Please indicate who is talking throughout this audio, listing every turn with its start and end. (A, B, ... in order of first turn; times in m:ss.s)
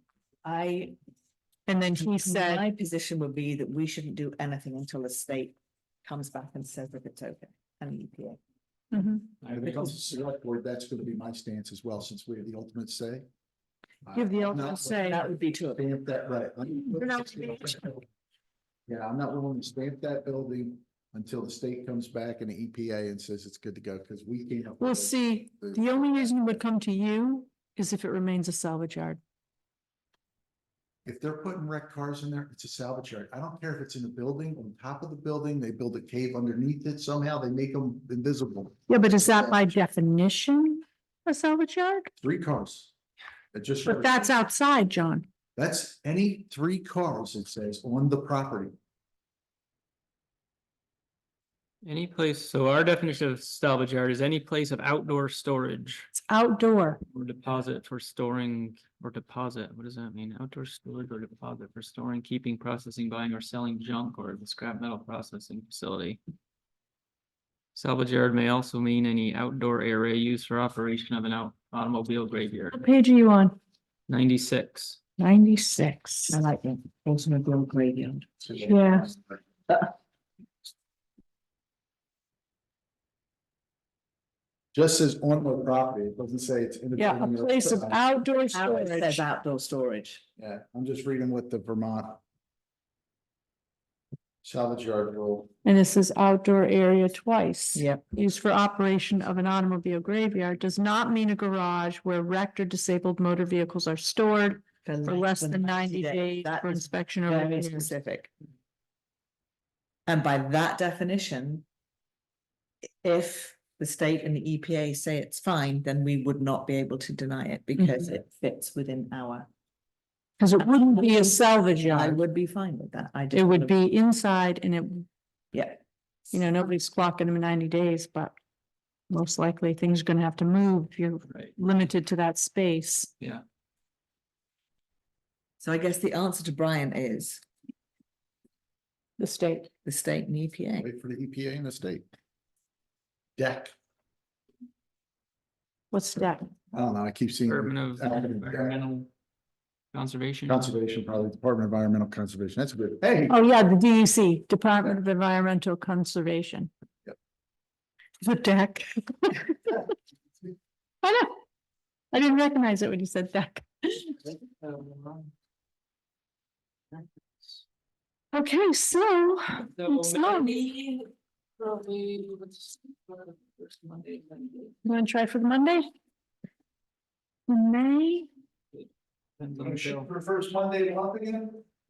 0:00.4-0:00.9 A
0:01.7-0:02.6 B
0:01.9-0:08.4 A
0:08.9-0:09.2 B
0:09.4-0:09.8 C
0:09.5-0:13.2 D
0:14.0-0:18.0 D
0:14.1-0:15.3 B
0:14.9-0:15.8 A
0:16.9-0:17.9 B
0:18.9-0:26.6 D
0:24.8-0:29.2 B
0:31.0-0:39.7 D
0:38.9-0:42.1 B
0:42.2-0:42.9 D
0:43.5-0:44.3 D
0:43.8-0:45.2 B
0:45.6-0:48.7 D
0:51.8-0:56.1 C
0:56.1-0:57.0 B
0:57.1-1:06.2 C
1:07.7-1:12.8 C
1:12.7-1:13.6 B
1:14.1-1:15.0 C
1:15.2-1:16.4 B
1:16.3-1:18.5 A
1:18.4-1:19.2 D
1:18.6-1:19.1 B
1:24.7-1:28.0 D
1:27.0-1:29.2 B
1:28.5-1:30.2 A
1:30.4-1:32.2 D
1:34.4-1:35.5 D
1:35.6-1:47.9 B
1:37.7-1:38.0 A
1:44.8-1:48.3 A
1:50.1-1:51.6 A
1:53.0-1:59.5 A
2:00.4-2:02.2 B
2:00.9-2:03.8 A
2:03.3-2:05.0 B
2:05.5-2:05.8 A
2:06.3-2:08.3 B
2:09.1-2:13.1 B
2:11.3-2:11.5 C
2:15.6-2:17.4 A
2:19.2-2:19.7 B
2:19.8-2:20.9 A
2:20.8-2:22.1 D
2:23.4-2:23.7 D
2:25.9-2:26.5 B
2:26.7-2:28.8 D
2:27.5-2:29.1 C
2:29.9-2:30.8 C
2:30.5-2:33.4 D
2:33.3-2:36.7 B
2:38.2-2:39.8 B
2:41.0-2:41.4 B
2:42.1-2:44.0 B
2:44.2-2:45.3 C
2:46.9-2:47.6 C
2:48.3-2:50.5 B
2:49.6-2:54.7 C
2:54.8-2:55.9 B
2:57.5-2:58.3 B
2:59.4-3:00.1 C
2:59.6-3:01.6 D